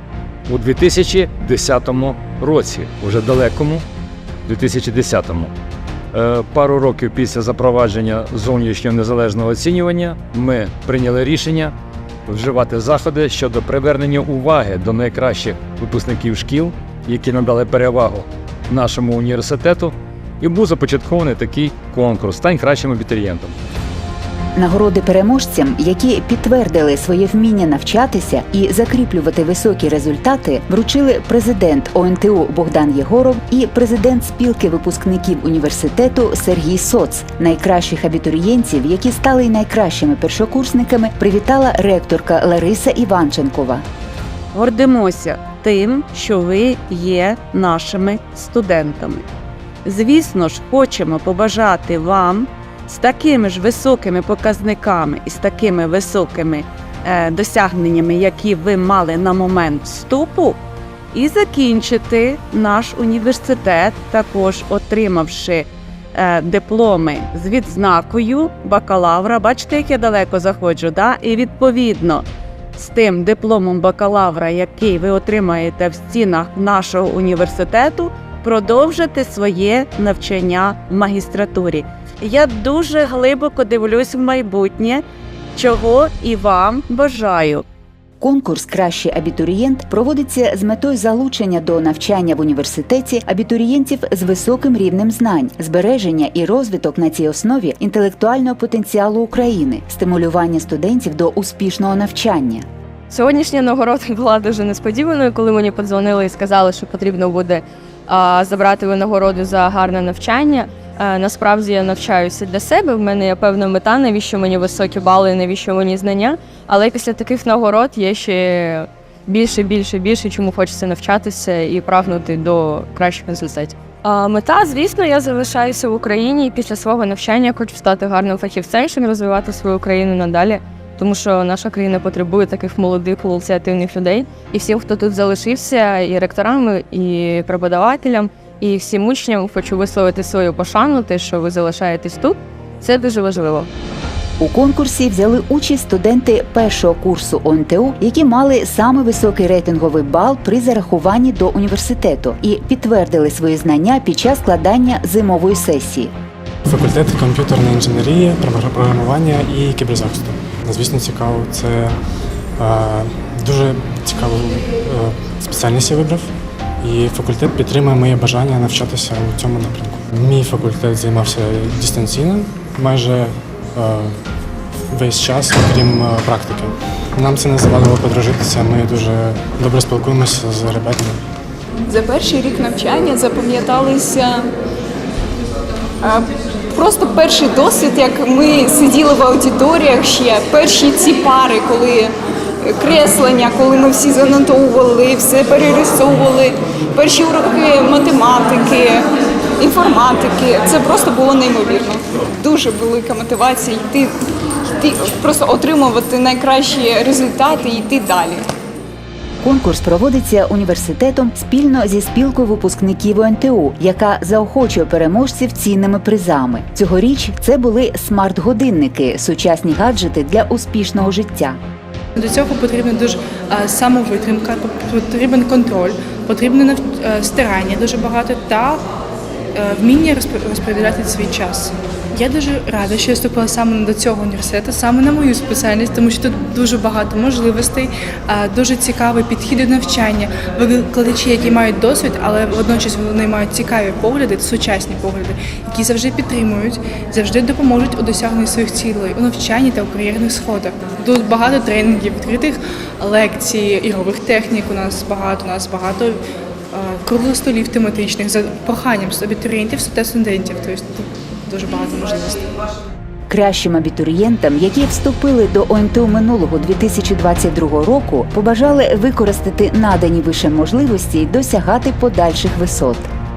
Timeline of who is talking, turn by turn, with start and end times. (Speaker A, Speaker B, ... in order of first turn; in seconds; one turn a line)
Speaker A: 0.5-3.9
Speaker A: 4.5-5.5
Speaker A: 6.1-11.7
Speaker A: 12.3-23.6
Speaker B: 24.6-43.8
Speaker C: 44.5-49.3
Speaker C: 49.9-60.6
Speaker C: 61.1-85.0
Speaker C: 85.5-87.7
Speaker B: 88.2-102.7
Speaker D: 103.1-143.7
Speaker B: 144.4-156.1
Speaker E: 156.7-162.0
Speaker E: 162.6-166.3
Speaker E: 166.8-174.2
Speaker E: 174.9-181.2
Speaker F: 181.9-184.5
Speaker F: 186.0-199.1
Speaker F: 199.6-204.2
Speaker F: 204.7-208.4
Speaker B: 209.4-221.6
Speaker G: 222.2-228.8
Speaker G: 229.6-256.2
Speaker G: 256.7-262.5
Speaker B: 263.3-273.1